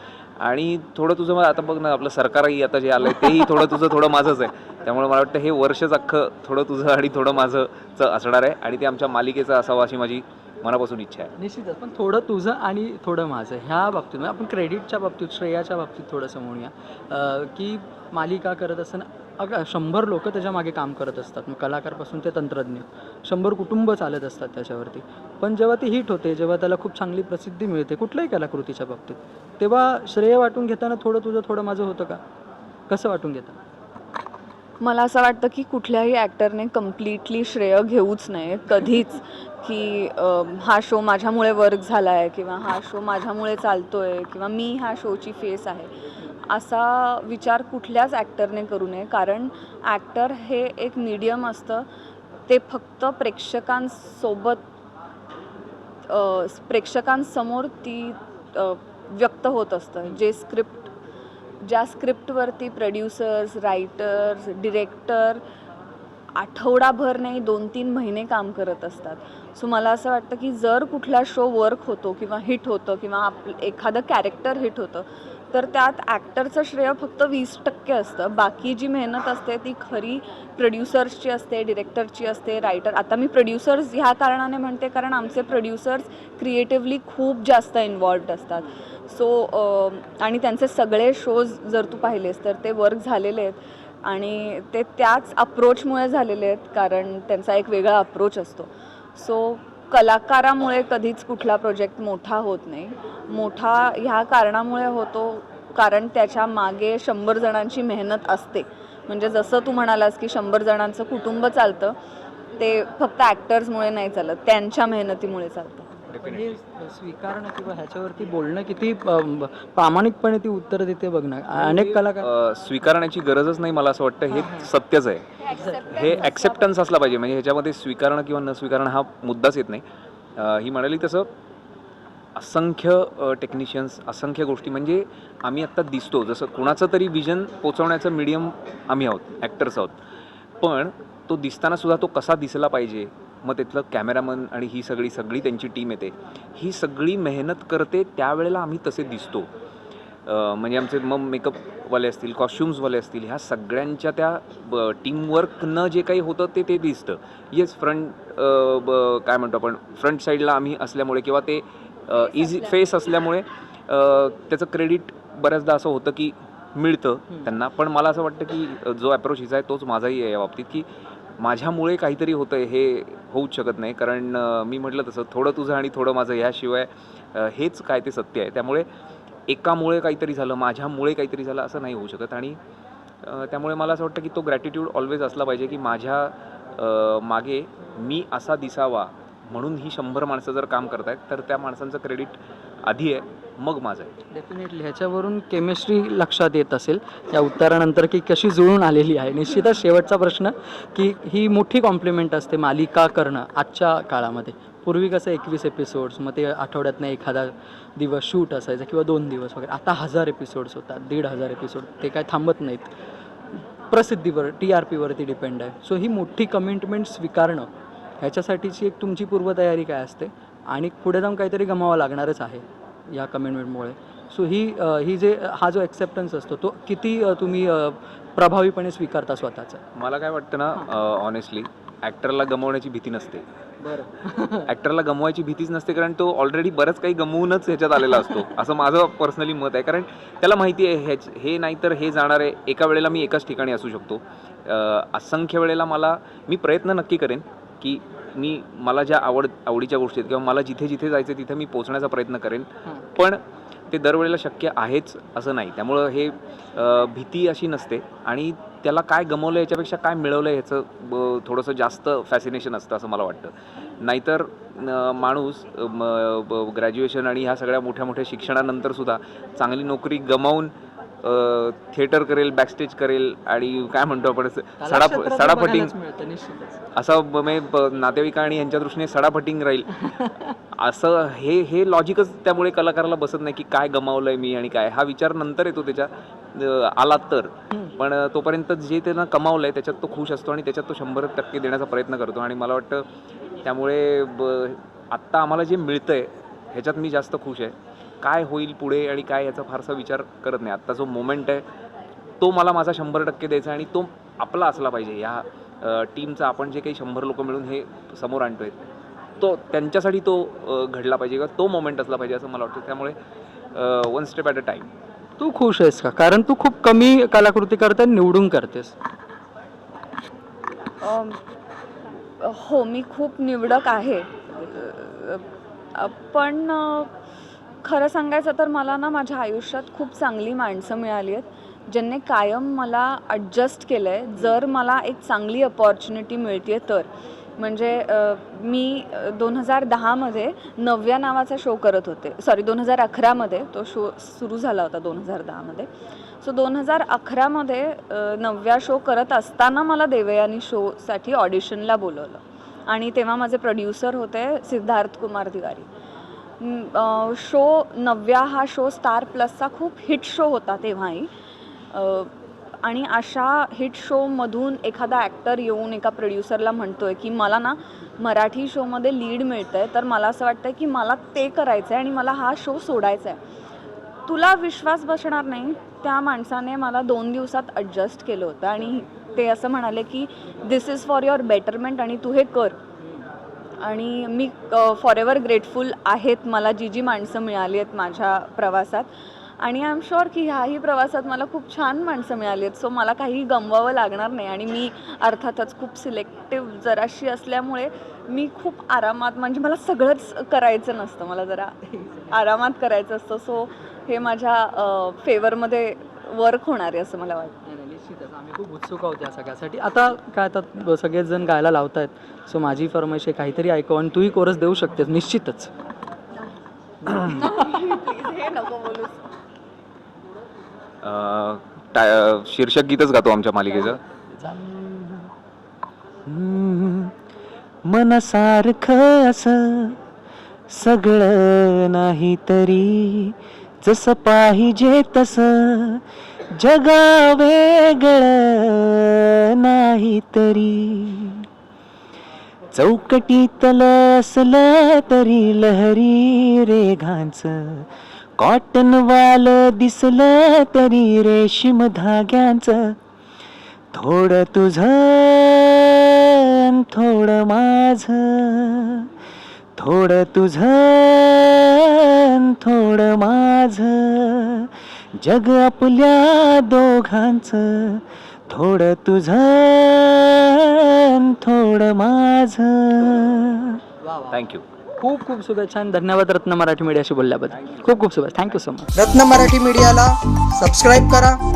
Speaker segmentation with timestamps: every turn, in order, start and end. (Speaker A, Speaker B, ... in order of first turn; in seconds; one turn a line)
Speaker A: 0.4-11.3
Speaker B: 11.3-32.2
Speaker B: 32.9-33.5
Speaker C: 34.8-45.9
Speaker C: 46.5-51.8
Speaker C: 52.5-54.6
Speaker C: 56.1-60.9
Speaker C: 61.6-65.4
Speaker C: 66.3-111.9
Speaker C: 112.6-115.9
Speaker A: 116.1-116.6
Speaker B: 116.2-122.3
Speaker A: 121.5-125.3
Speaker B: 124.3-124.7
Speaker B: 125.5-126.3
Speaker A: 125.9-129.8
Speaker A: 130.3-131.3
Speaker A: 132.3-139.9
Speaker A: 140.6-149.5
Speaker A: 150.2-170.9
Speaker A: 171.4-178.9
Speaker A: 179.5-182.6
Speaker A: 183.2-194.1
Speaker B: 194.3-212.9
Speaker B: 213.9-217.7
Speaker B: 218.2-229.8
Speaker A: 229.9-233.4
Speaker B: 233.8-234.7
Speaker A: 234.7-275.9
Speaker B: 238.1-238.4
Speaker B: 274.8-276.8
Speaker A: 276.9-279.9
Speaker B: 280.0-280.4
Speaker A: 280.8-293.0
Speaker A: 293.6-301.6
Speaker A: 302.4-308.8
Speaker A: 309.4-313.1
Speaker A: 313.7-314.9
Speaker B: 315.4-318.9
Speaker C: 321.0-321.4
Speaker C: 322.4-325.4
Speaker C: 325.9-327.1
Speaker C: 327.8-337.1
Speaker C: 337.6-345.9
Speaker C: 346.4-355.9
Speaker C: 356.6-361.3
Speaker C: 361.9-362.3
Speaker C: 362.8-373.4
Speaker C: 374.3-382.8
Speaker C: 383.8-389.1
Speaker C: 389.6-401.8
Speaker C: 402.3-407.6
Speaker B: 407.6-415.7
Speaker C: 417.2-419.2
Speaker A: 421.0-425.3
Speaker A: 426.3-427.1
Speaker D: 427.9-429.9
Speaker D: 430.7-436.0
Speaker D: 436.6-441.4
Speaker D: 442.7-452.9
Speaker D: 453.9-459.1
Speaker D: 459.8-473.8
Speaker B: 474.0-474.4
Speaker A: 474.3-474.6
Speaker B: 475.0-478.9
Speaker E: 478.9-481.4